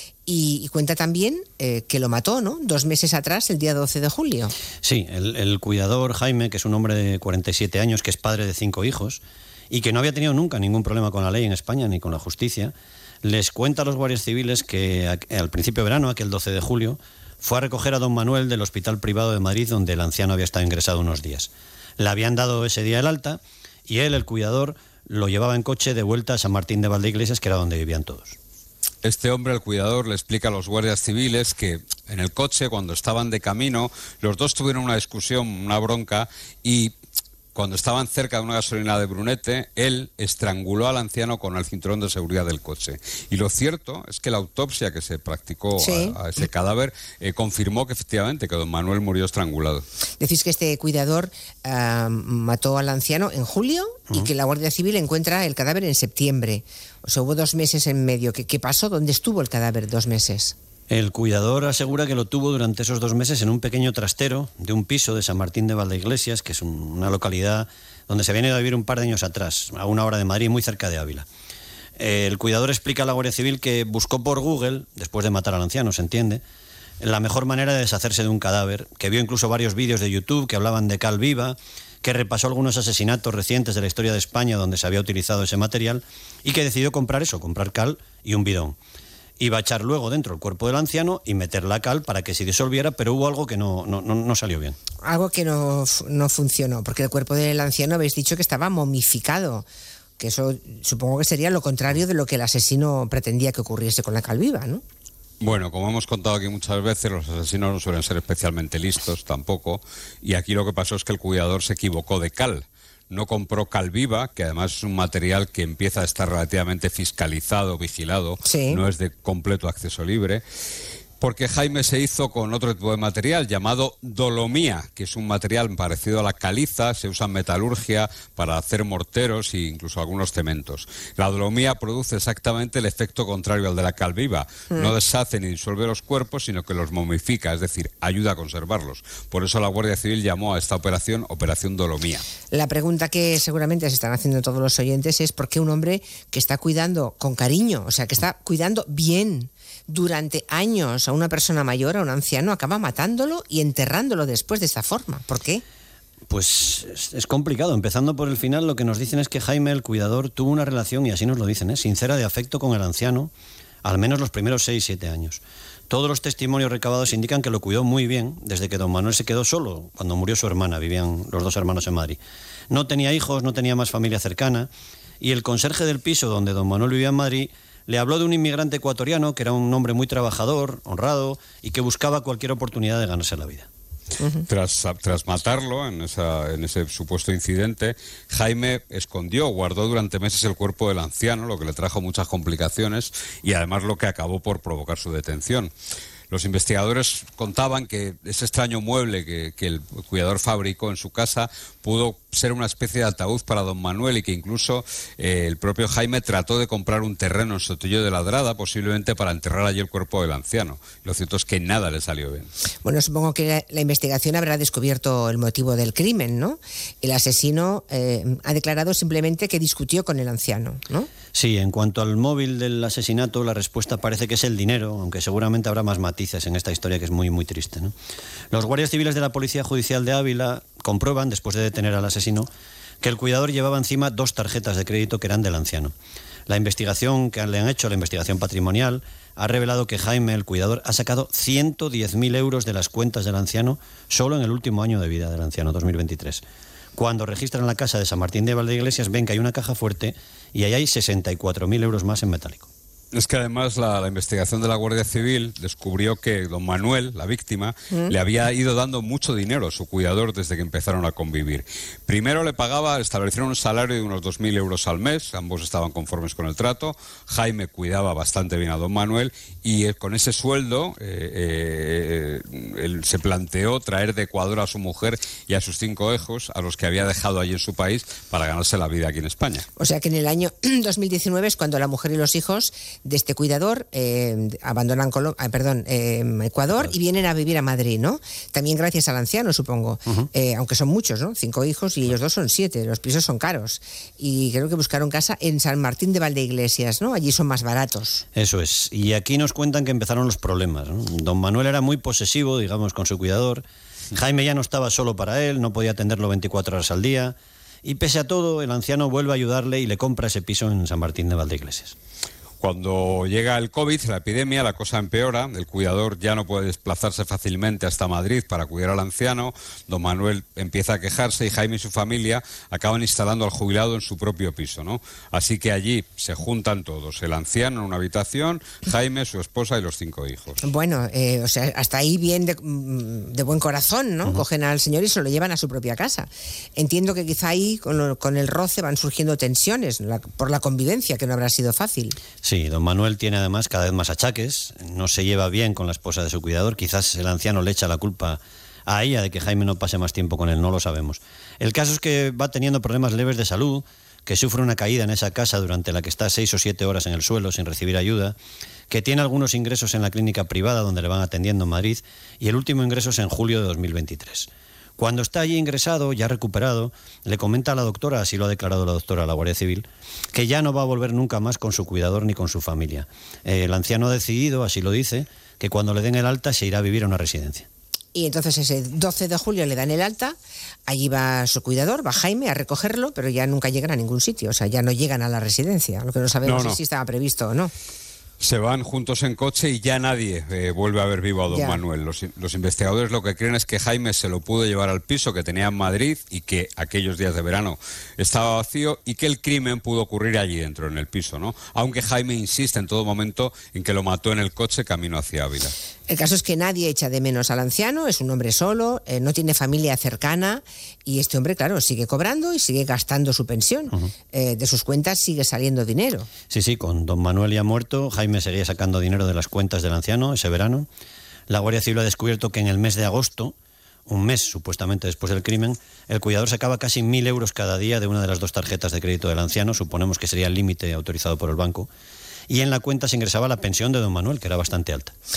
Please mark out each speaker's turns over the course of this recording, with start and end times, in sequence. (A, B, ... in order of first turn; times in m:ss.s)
0:00.2-0:04.5 A
0:04.8-0:28.4 B
0:29.0-0:36.9 C
0:37.5-0:49.8 C
0:45.8-0:46.2 A
0:50.2-1:00.5 A
1:00.9-1:11.2 B
1:12.0-1:16.4 B
1:17.0-1:28.8 B
1:29.4-1:34.8 B
1:35.0-1:39.6 A
1:40.2-1:44.8 A
1:45.4-2:00.4 C
1:58.4-1:58.8 A
2:01.2-2:22.2 C
2:22.5-2:35.6 A
2:36.3-2:43.3 B
2:43.8-2:52.2 B
2:52.7-2:54.7 B
2:55.2-3:03.7 B
3:04.2-3:04.4 A
3:04.4-3:15.7 C
3:16.3-3:32.5 C
3:32.8-3:41.1 A
3:41.3-3:47.9 B
3:48.5-3:52.5 B
3:53.0-3:55.9 B
3:56.5-4:06.4 B
4:06.9-4:12.7 B
4:13.1-4:39.7 C
4:39.8-4:58.2 A
4:58.3-5:11.9 B
5:12.6-5:30.6 C
5:30.6-5:42.2 A
5:42.4-5:58.3 B
5:58.9-6:17.7 B
6:18.1-6:20.4 A
6:20.9-6:27.7 A
6:26.4-6:26.8 C
6:28.4-6:45.7 C
6:31.5-6:31.8 A
6:46.1-6:56.3 A
6:56.5-7:00.9 B
7:01.5-7:03.5 B
7:04.1-7:11.9 B
7:12.5-7:15.1 B